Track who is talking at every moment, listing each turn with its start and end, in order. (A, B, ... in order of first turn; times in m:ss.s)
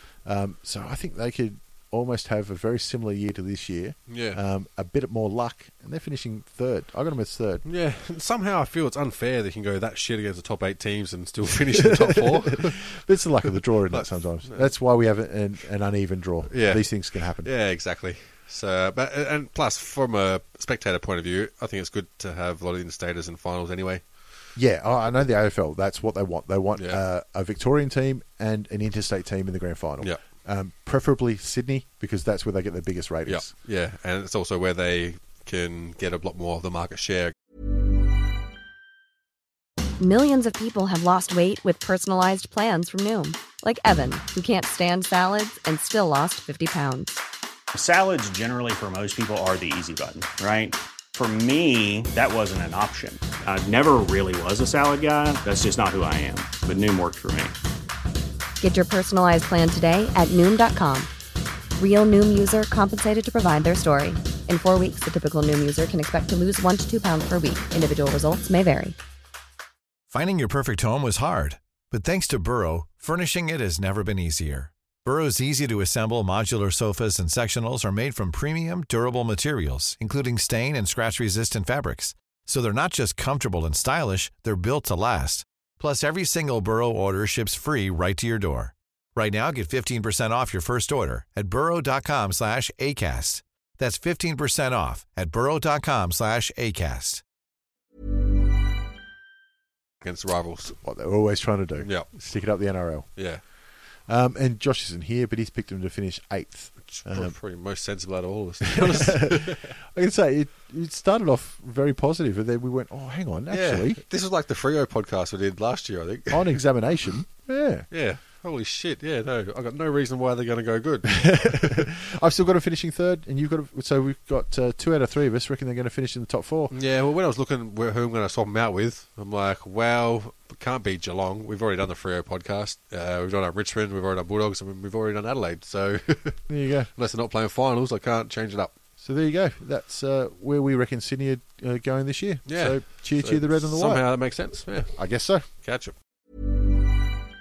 0:00.2-0:07.6 A
0:04.1-0:04.4 B
0:07.6-0:13.0 B
0:11.8-0:17.5 A
0:13.9-0:14.7 B
0:16.5-0:24.2 B
0:24.5-0:33.5 A
0:26.7-0:27.0 B
0:33.2-0:37.3 B
0:40.0-0:47.2 C
0:47.7-0:57.5 D
0:58.6-1:01.1 C
1:01.8-1:09.0 C
1:10.1-1:37.2 E
1:40.0-1:40.8 B
1:40.8-1:43.2 A
1:41.8-1:42.1 B
1:43.2-1:43.4 B
1:44.0-1:47.4 A
1:46.8-1:49.8 B
1:48.7-1:54.0 A
1:53.5-1:56.6 B
1:56.3-1:57.9 A
1:57.9-2:01.9 B
2:01.1-2:06.7 A
2:06.7-2:18.7 B
2:16.5-2:16.9 A
2:19.0-2:24.0 A
2:22.4-2:25.0 B
2:24.7-2:25.4 A
2:25.5-2:25.9 B